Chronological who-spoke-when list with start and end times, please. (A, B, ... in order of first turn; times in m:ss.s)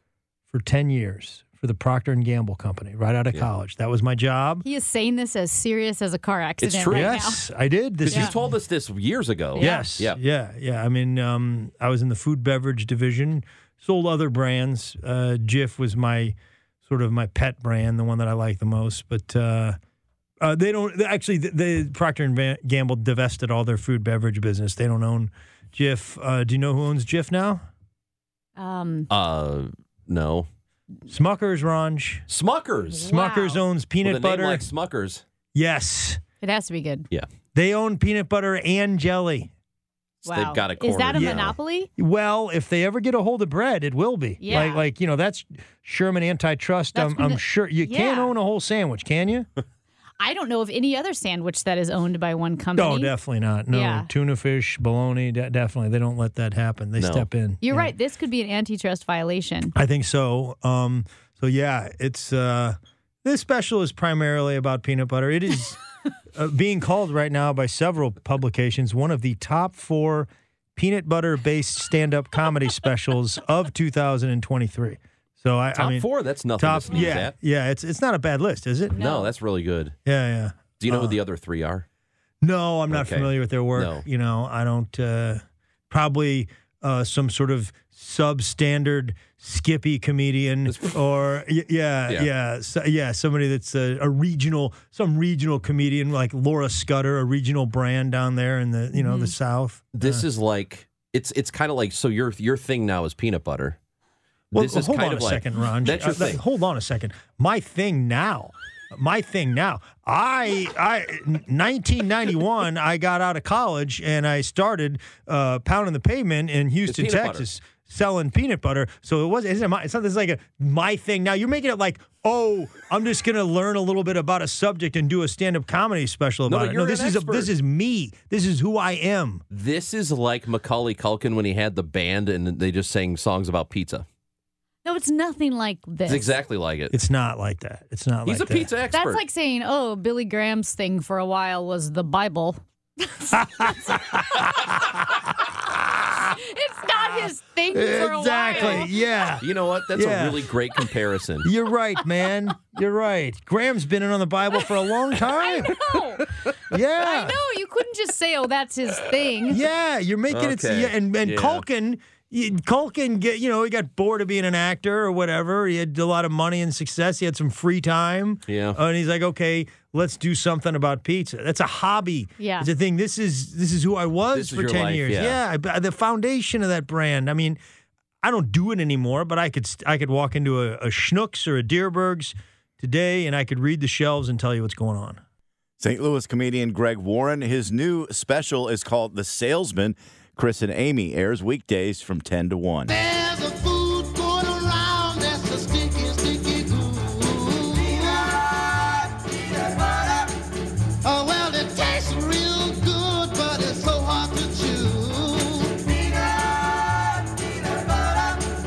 0:00.5-0:04.6 A
0:04.6-0:07.4 B
0:06.6-0:07.2 C
0:06.9-0:08.5 A
0:08.0-0:10.2 C
0:08.1-0:08.3 B
0:09.5-0:09.9 B
0:09.6-0:16.3 A
0:16.8-0:19.8 A
0:20.4-0:27.6 A
0:28.6-0:29.1 B
0:29.1-0:30.5 C
0:31.1-0:32.2 A
0:32.3-0:33.1 C
0:32.9-0:33.6 B
0:33.1-0:34.7 A
0:34.0-0:35.2 C
0:35.5-0:36.2 A
0:36.4-0:37.1 B
0:37.5-0:39.5 A
0:40.2-0:41.6 C
0:40.2-0:41.9 B
0:41.1-0:49.5 A
0:44.4-0:44.8 B
0:46.9-0:48.3 B
0:50.2-0:53.2 B
0:52.8-0:57.9 A
0:53.7-0:54.1 B
0:57.0-0:57.3 C
0:57.6-0:59.7 B
0:59.7-1:05.8 A
1:06.3-1:19.1 A
1:15.8-1:17.3 C
1:18.9-1:19.3 B
1:19.0-1:19.9 C
1:20.0-1:21.2 A
1:20.8-1:21.8 C
1:22.4-1:40.3 A
1:22.9-1:24.0 C
1:30.6-1:31.0 C
1:38.9-1:39.3 B
1:40.0-1:43.8 C
1:44.5-1:46.4 C
1:44.5-2:09.4 A
1:56.8-1:57.5 C
2:06.4-2:07.5 C
2:09.5-2:14.0 C
2:14.8-2:16.3 B
2:16.0-2:16.9 C
2:16.9-2:18.7 A
2:18.2-2:19.2 C
2:18.9-2:24.0 B
2:26.2-2:29.0 B
2:27.7-2:30.5 A
2:28.6-2:28.8 C
2:29.4-2:31.5 C
2:31.4-2:35.8 A
2:35.4-2:36.2 B
2:36.7-2:37.4 A
2:37.0-2:39.6 B
2:39.5-2:57.6 A
2:40.3-2:41.6 C
2:48.5-2:48.8 C
2:52.4-2:52.7 B
2:54.3-2:55.4 C
2:58.2-3:05.2 A
3:05.8-3:12.8 D
3:12.9-3:18.6 E
3:19.9-3:20.2 E
3:21.0-3:26.0 E